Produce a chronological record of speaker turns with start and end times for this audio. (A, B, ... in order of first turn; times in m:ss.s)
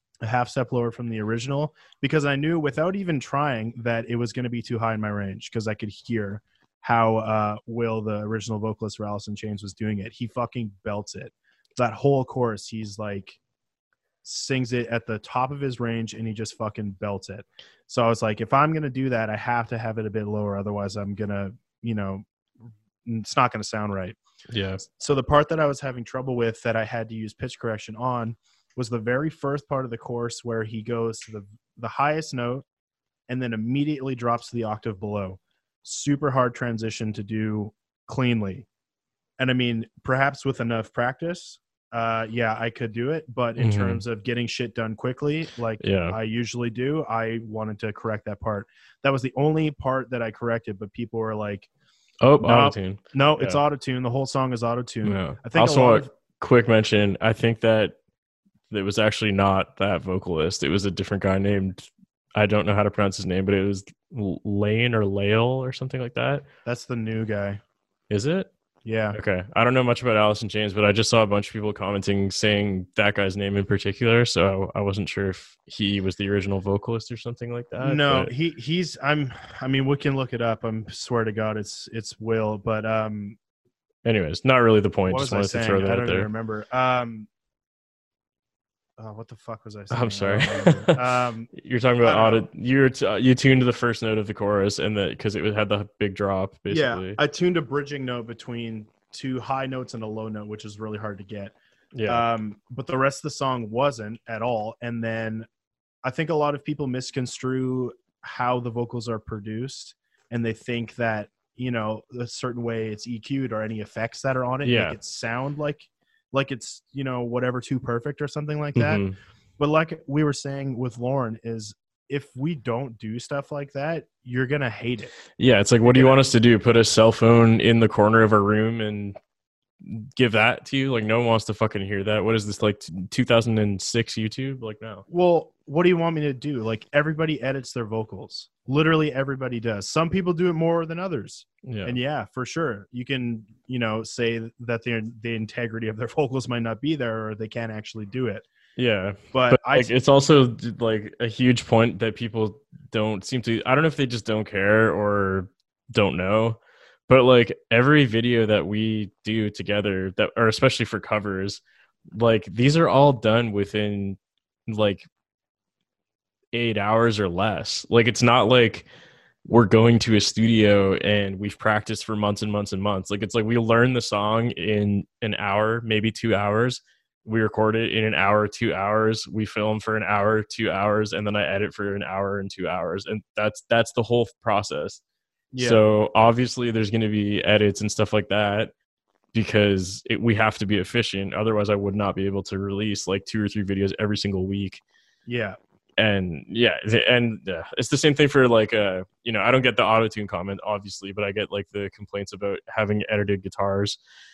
0:00.2-0:13.4 A
0:14.2-0:22.2 A
0:23.0-0:24.2 A
0:24.5-0:24.8 B
0:25.0-0:32.6 A
0:33.3-0:38.6 A
0:39.4-0:51.7 A
0:43.6-0:44.0 B
0:45.8-0:46.2 B
0:52.2-0:53.6 B
0:52.4-0:56.1 A
0:55.0-0:58.0 B
0:58.7-1:06.4 B
1:06.6-1:07.6 A
1:08.1-1:08.5 B
1:08.8-1:09.2 A
1:09.1-1:18.3 B
1:17.8-1:23.4 A
1:24.0-1:26.3 B
1:25.1-1:27.3 A
1:29.0-1:31.5 A
1:29.9-1:37.2 B
1:32.0-1:32.4 A
1:36.7-1:41.5 A
1:41.9-1:42.2 B
1:42.1-1:45.5 A
1:46.0-1:59.0 A
1:54.6-1:55.0 B
1:58.7-1:59.2 B
1:59.6-2:05.1 A
2:05.4-2:09.2 B
2:05.8-2:06.2 A
2:09.8-2:15.0 B
2:15.1-2:28.4 A
2:21.6-2:22.0 B
2:28.8-2:45.0 B
2:29.3-2:29.9 A
2:46.5-2:48.9 B
2:49.4-3:05.0 B
3:05.5-3:05.8 A
3:05.6-3:08.7 B
3:09.3-3:14.8 B
3:15.3-3:15.6 A
3:16.0-3:24.0 B